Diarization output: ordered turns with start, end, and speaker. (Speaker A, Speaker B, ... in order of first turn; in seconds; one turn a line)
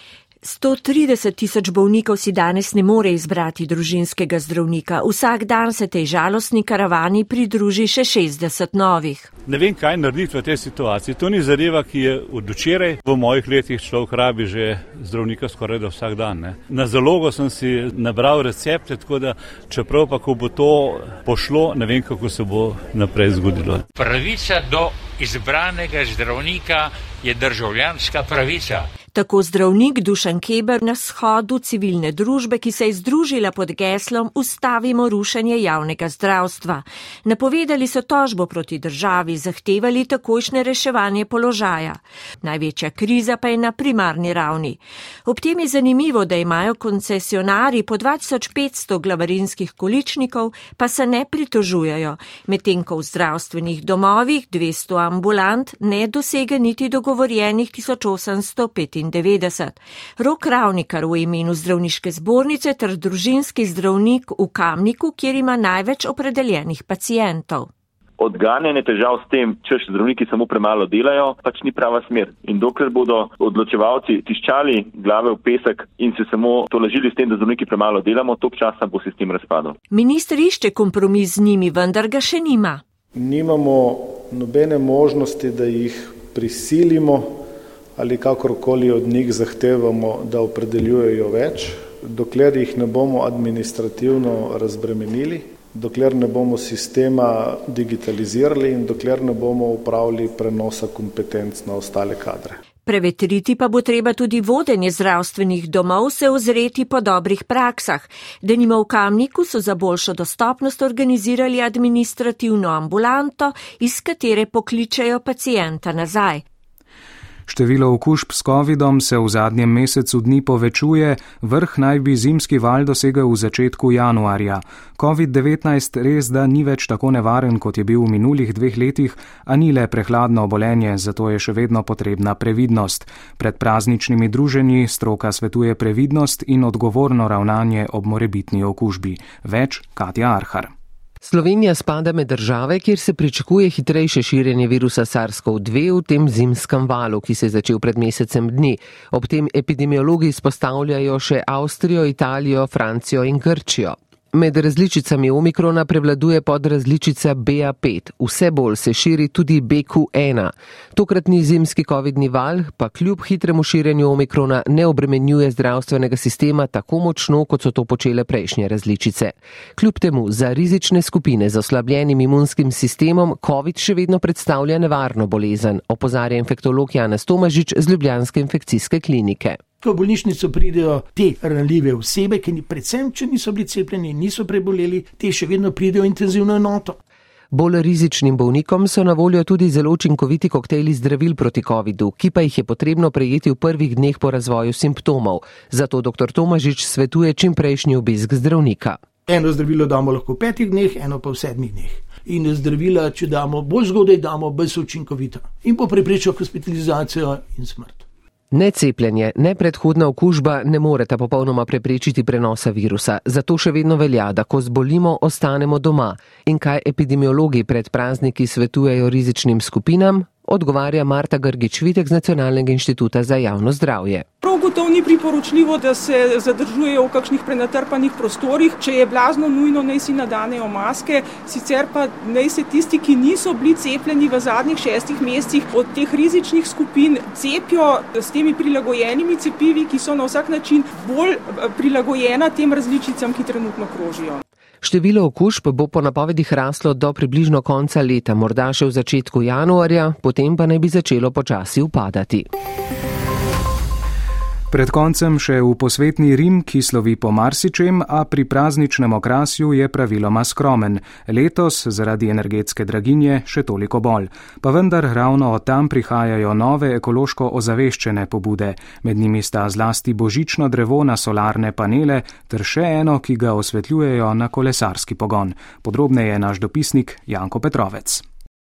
Speaker A: 0.4-9.3
Speaker B: 9.5-23.9
Speaker C: 24.0-28.9
Speaker A: 29.1-67.7
Speaker D: 68.2-79.8
Speaker A: 79.9-82.8
Speaker E: 83.2-87.5
Speaker E: 88.0-102.6
Speaker A: 102.8-116.4
Speaker F: 117.5-140.7
Speaker G: 141.2-179.6
Speaker H: 179.8-187.0
Speaker G: 187.5-199.0
Speaker H: 199.3-208.0
Speaker G: 208.5-224.2
Speaker I: 224.4-244.4
Speaker G: 244.8-252.5
Speaker F: 254.7-278.2